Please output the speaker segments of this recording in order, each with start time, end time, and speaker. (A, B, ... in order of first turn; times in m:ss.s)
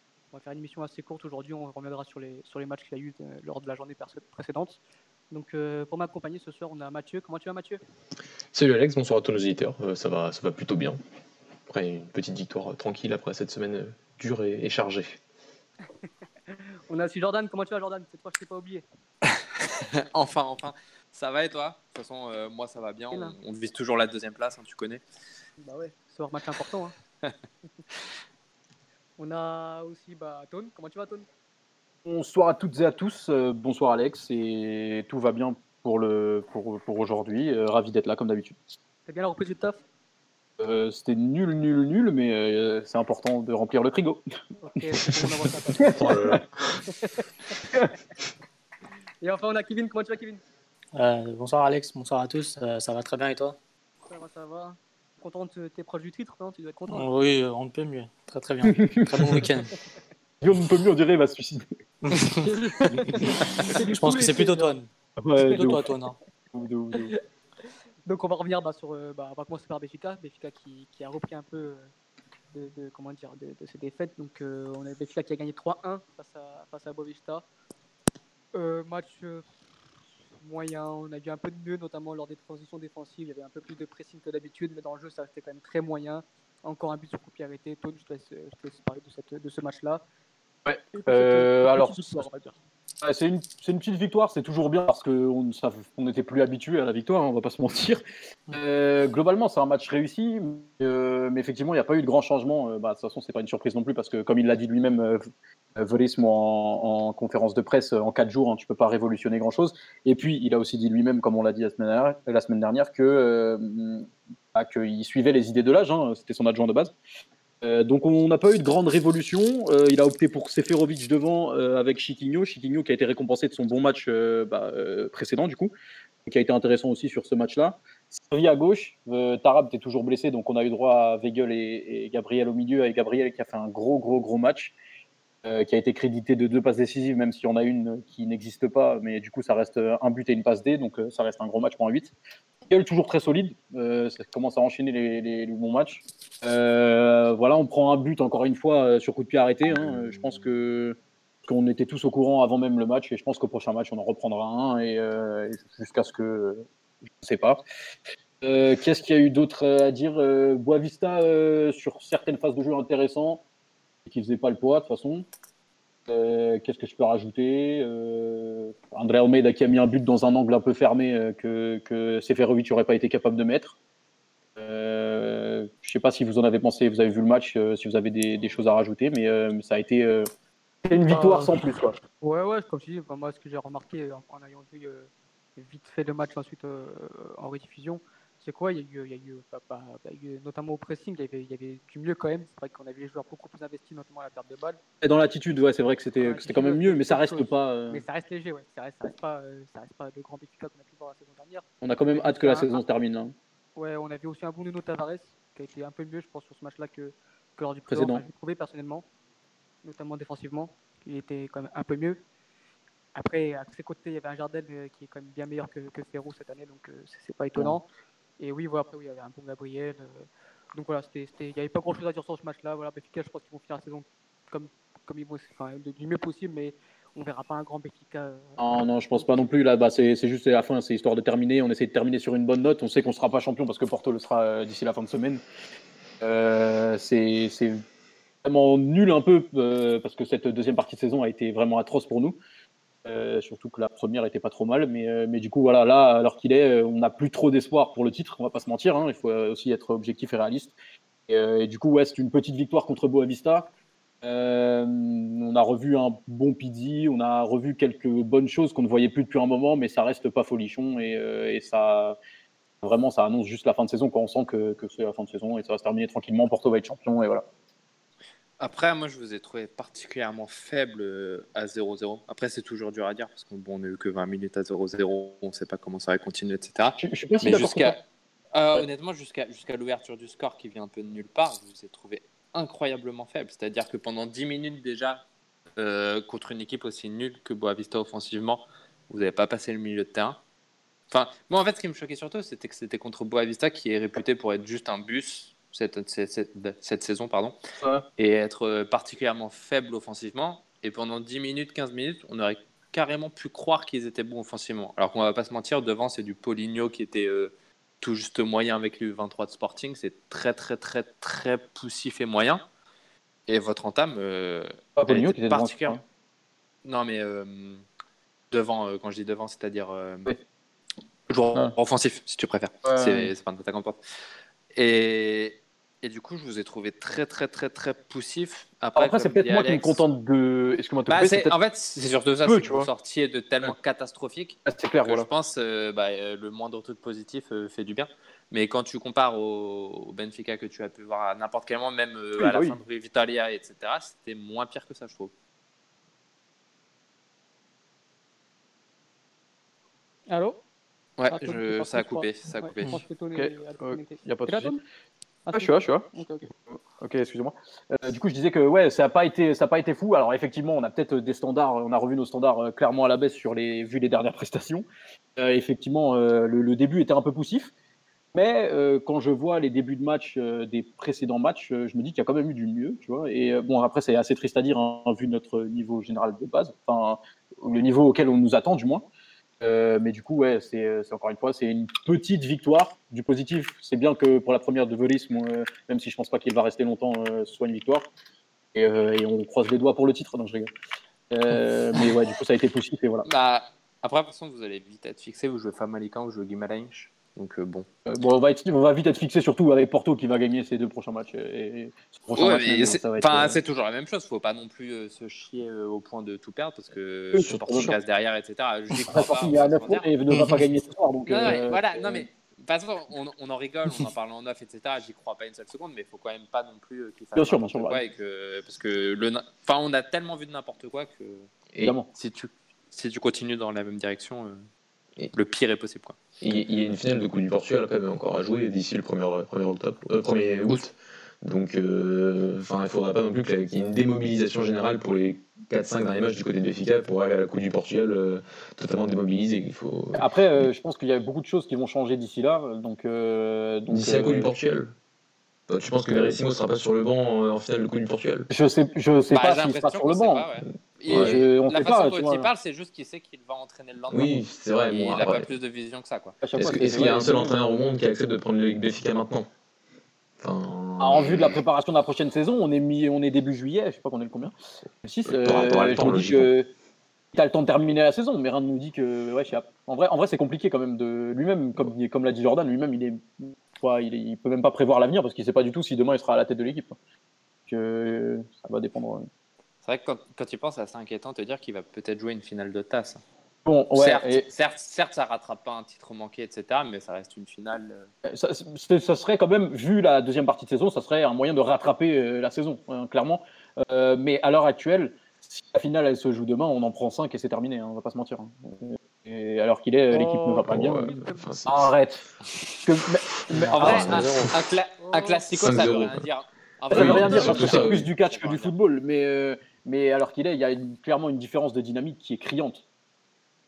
0:00.3-0:04.8 A
0:05.3-0:07.8 A
0:08.5-0:11.0 B
0:11.7-0:15.2 B
0:16.9-0:18.8 A
0:19.8-0:25.0 C
0:25.6-0:26.9 A
0:29.2-0:31.3 A
0:32.0-0:38.6 D
0:39.1-0:39.8 A
0:40.6-0:44.2 D
0:44.6-0:47.6 A
0:45.8-0:46.4 D
0:46.0-0:46.5 B
0:49.2-0:50.4 A
0:51.0-0:53.6 E
0:54.1-0:57.1 A
0:56.9-0:59.7 E
0:58.7-0:59.4 D
1:00.4-1:01.7 D
1:02.0-1:06.2 E
1:02.4-1:04.7 A
1:05.3-1:05.9 D
1:05.5-1:05.9 A
1:06.5-1:07.1 D
1:06.9-1:07.2 A
1:08.1-1:11.9 A
1:12.5-1:17.4 A
1:18.5-1:19.4 A
1:20.4-1:30.0 A
1:30.7-1:32.1 D
1:30.9-1:32.6 A
1:33.0-1:45.2 D
1:45.8-1:57.0 D
1:57.6-2:05.7 D
2:06.3-2:14.8 D
2:15.4-2:22.1 D
2:22.7-2:36.6 D
2:37.2-2:37.6 D
2:38.4-2:43.4 D
2:44.1-2:45.3 D
2:46.1-2:53.8 D
2:54.6-3:00.3 D
3:00.8-3:02.0 D
3:00.9-3:14.8 A
3:15.0-3:18.0 D
3:16.2-3:22.8 A
3:21.8-3:23.4 D
3:23.8-3:29.0 A
3:27.9-3:28.2 D
3:29.8-3:32.2 A
3:33.2-3:37.9 A
3:38.4-3:49.3 A
3:48.6-3:55.4 D
3:56.2-3:57.8 D
3:58.4-4:02.4 D
4:03.0-4:10.8 D
4:11.3-4:13.7 D
4:14.2-4:22.2 D
4:22.8-4:27.4 D
4:28.6-4:38.0 C
4:37.0-4:38.0 D
4:38.5-4:45.2 C
4:45.8-4:50.4 C
4:51.1-4:57.6 C
4:57.8-4:58.1 D
4:58.2-5:12.6 C
5:13.5-5:16.0 C
5:15.0-5:16.0 D
5:16.8-5:17.8 C
5:18.5-5:20.4 C
5:21.3-5:24.0 C
5:22.8-5:23.3 D
5:24.8-5:30.0 C
5:29.0-5:31.5 D
5:31.1-5:45.3 C
5:32.4-5:32.9 D
5:34.7-5:35.3 D
5:42.4-5:42.8 D
5:50.3-5:50.6 A
5:51.2-5:53.0 C
5:51.3-5:54.8 A
5:53.4-5:54.7 D
5:55.5-5:56.4 A
5:55.5-5:56.1 D
5:56.7-6:04.9 D
6:05.4-6:07.7 D
6:08.3-6:19.1 D
6:19.6-6:28.1 D
6:28.7-6:30.7 D
6:31.3-6:33.3 D
6:33.2-6:37.9 C
6:38.1-6:43.6 D
6:42.4-6:50.1 C
6:47.3-6:48.0 D
6:47.4-6:48.0 B
6:48.9-6:52.3 D
6:50.3-6:50.7 E
6:51.3-7:01.5 C
6:57.4-6:58.0 D
7:01.8-7:02.1 D
7:02.1-7:04.7 C
7:05.3-7:06.2 C
7:06.4-7:20.7 B
7:20.2-7:24.5 D
7:23.9-7:24.9 B
7:25.7-7:28.5 B
7:28.5-7:30.5 D
7:29.3-7:36.4 C
7:31.1-7:32.5 D
7:31.1-7:31.4 B
7:34.1-7:35.5 B
7:36.4-7:37.6 D
7:36.6-7:39.5 B
7:40.4-7:41.6 B
7:41.0-7:46.7 D
7:45.3-7:46.5 B
7:47.3-7:57.0 D
7:57.7-7:59.3 D
7:59.8-8:03.2 C
8:03.6-8:04.4 D
8:03.9-8:08.1 C
8:08.3-8:21.1 D
8:20.1-8:21.5 A
8:20.7-8:21.9 B
8:21.7-8:22.2 D
8:22.8-8:24.5 D
8:23.6-8:24.5 B
8:23.7-8:28.8 C
8:25.0-8:25.4 A
8:25.5-8:26.3 B
8:26.9-8:28.0 B
8:26.9-8:32.8 D